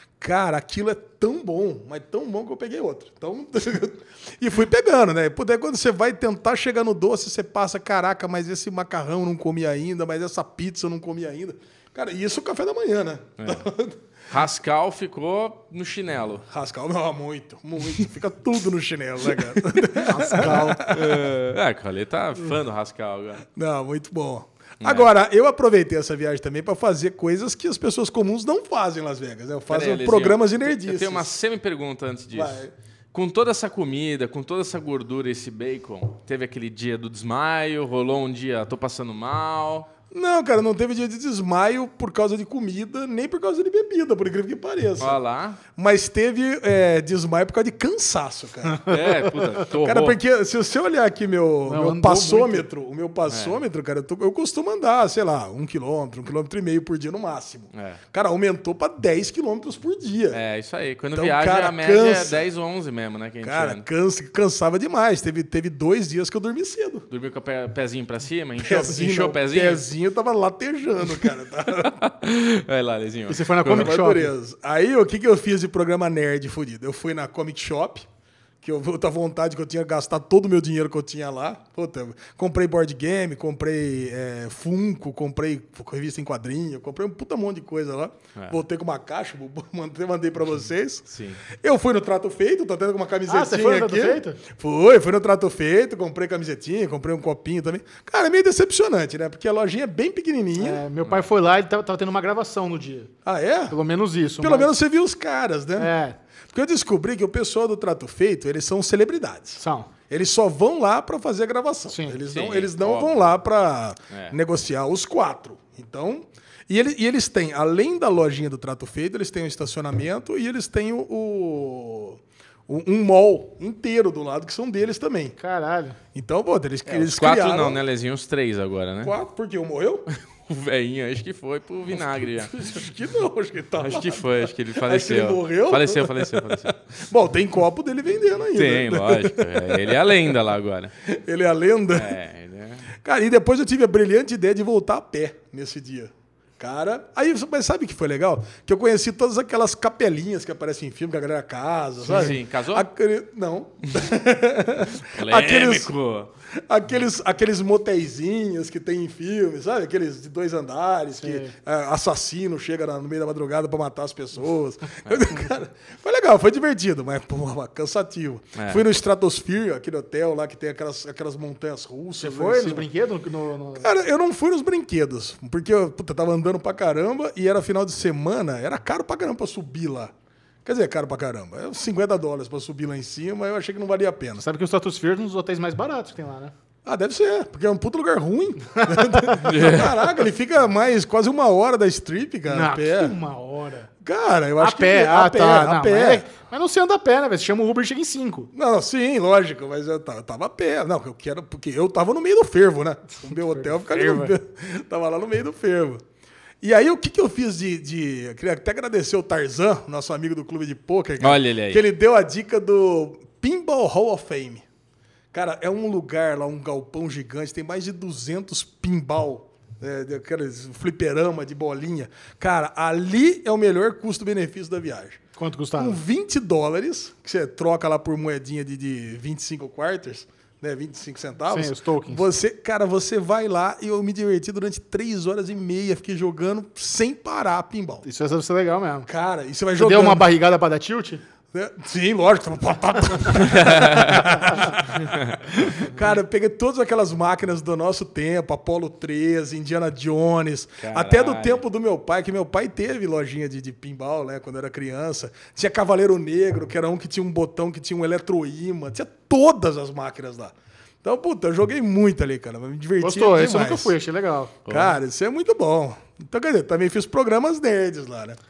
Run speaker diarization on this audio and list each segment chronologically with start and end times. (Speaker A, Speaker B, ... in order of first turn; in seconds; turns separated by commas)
Speaker A: 0.2-14.0, Speaker B: 13.4-13.7, Speaker B: 14.3-16.4, Speaker A: 16.5-21.3, Speaker B: 19.3-19.8, Speaker C: 20.0-20.8, Speaker B: 20.4-23.4, Speaker A: 23.5-31.3, Speaker B: 24.8-25.1, Speaker B: 29.7-39.9, Speaker A: 32.3-32.7, Speaker A: 40.1-45.2, Speaker B: 45.0-45.6, Speaker A: 45.8-49.1, Speaker B: 48.9-50.2, Speaker A: 49.7-60.4, Speaker C: 51.7-52.6, Speaker B: 53.3-53.6, Speaker B: 57.7-58.0, Speaker B: 60.3-63.8, Speaker A: 61.1-62.4, Speaker A: 63.4-67.1, Speaker B: 67.1-69.8, Speaker A: 68.6-72.0, Speaker B: 71.2-73.9, Speaker C: 73.3-74.3, Speaker A: 73.6-78.1, Speaker A: 78.6-100.8, Speaker B: 91.1-91.4, Speaker C: 93.3-94.4, Speaker C: 100.6-103.1, Speaker A: 103.2-103.8, Speaker C: 103.7-104.7, Speaker A: 104.4-105.9, Speaker C: 105.8-106.2, Speaker A: 106.5-125.3, Speaker C: 109.6-109.9, Speaker C: 111.9-112.2, Speaker B: 112.3-113.2, Speaker C: 125.4-126.0, Speaker A: 126.1-127.8, Speaker B: 126.9-129.1, Speaker A: 129.0-130.1, Speaker B: 130.5-132.5, Speaker A: 131.9-140.3, Speaker B: 133.8-136.9, Speaker B: 138.5-140.9, Speaker A: 141.0-142.2, Speaker B: 141.9-142.8, Speaker A: 143.0-155.9, Speaker C: 152.0-152.3, Speaker B: 152.0-152.8, Speaker B: 155.0-156.3, Speaker A: 156.7-172.9, Speaker C: 161.2-161.5, Speaker B: 168.6-168.8, Speaker C: 172.2-173.9, Speaker A: 173.8-180.1, Speaker A: 180.6-184.4, Speaker C: 184.4-186.5, Speaker A: 186.8-193.2, Speaker C: 188.8-189.4, Speaker B: 189.4-190.0, Speaker C: 192.5-193.9, Speaker A: 194.0-196.2, Speaker C: 194.6-198.5, Speaker A: 198.5-206.0, Speaker C: 203.2-204.3, Speaker A: 206.6-214.6, Speaker B: 211.2-211.8, Speaker A: 215.3-225.2, Speaker C: 225.4-226.0, Speaker A: 225.8-238.0, Speaker C: 231.5-232.2, Speaker C: 238.0-239.1, Speaker A: 239.1-240.3, Speaker C: 239.8-241.2, Speaker A: 241.5-263.9, Speaker B: 243.4-244.2, Speaker B: 250.8-251.6, Speaker C: 263.0-264.6, Speaker B: 264.7-265.0, Speaker A: 264.7-268.4